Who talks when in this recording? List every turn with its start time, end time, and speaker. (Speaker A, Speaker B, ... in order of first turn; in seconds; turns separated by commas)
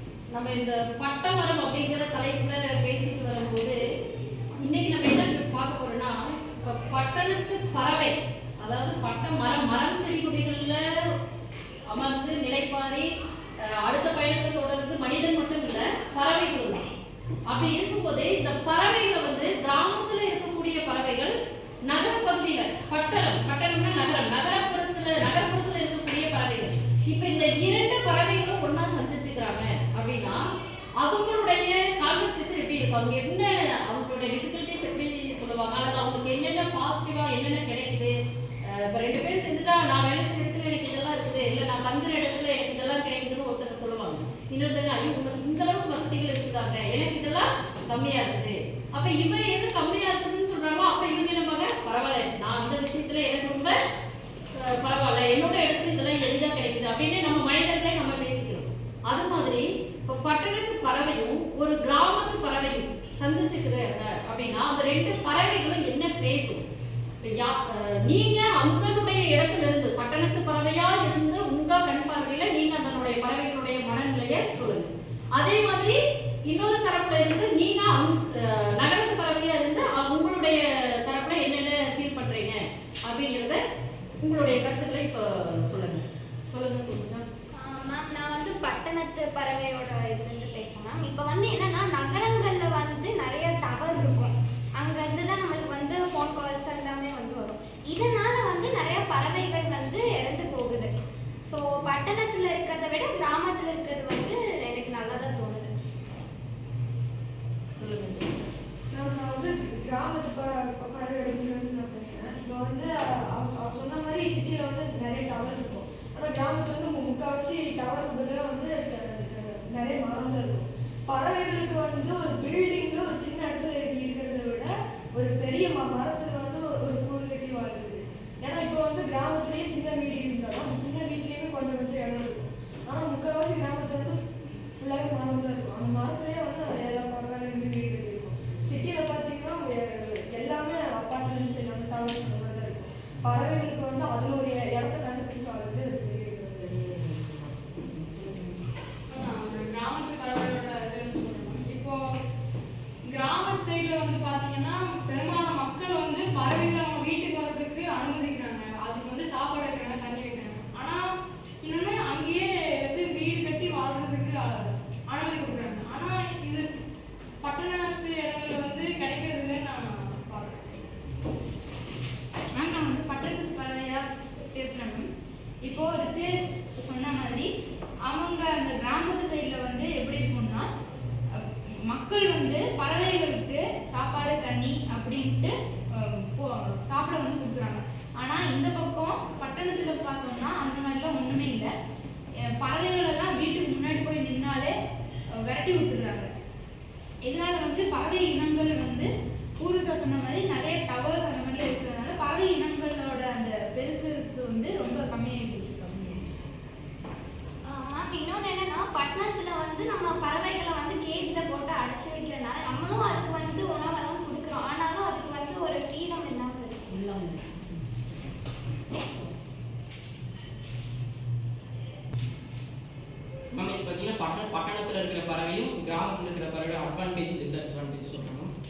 Speaker A: 0.3-3.8, Speaker A: 4.6-11.1, Speaker A: 11.9-13.1, Speaker A: 13.6-16.9, Speaker A: 17.5-21.3, Speaker A: 21.9-30.4, Speaker A: 31.0-53.8, Speaker A: 54.5-66.6, Speaker A: 67.2-83.6, Speaker A: 84.2-87.2, Speaker B: 87.6-100.9, Speaker B: 101.5-105.7, Speaker A: 107.8-108.3, Speaker C: 108.9-134.2, Speaker C: 134.8-147.1, Speaker D: 149.1-152.0, Speaker D: 153.1-161.1, Speaker D: 161.6-166.7, Speaker D: 167.4-170.8, Speaker E: 172.6-175.0, Speaker E: 175.7-177.4, Speaker E: 178.1-180.6, Speaker E: 181.9-185.5, Speaker E: 186.0-191.7, Speaker E: 192.6-194.7, Speaker E: 195.4-196.2, Speaker E: 197.2-199.1, Speaker E: 199.6-206.2, Speaker B: 207.7-217.0, Speaker A: 216.9-217.6, Speaker F: 223.5-228.5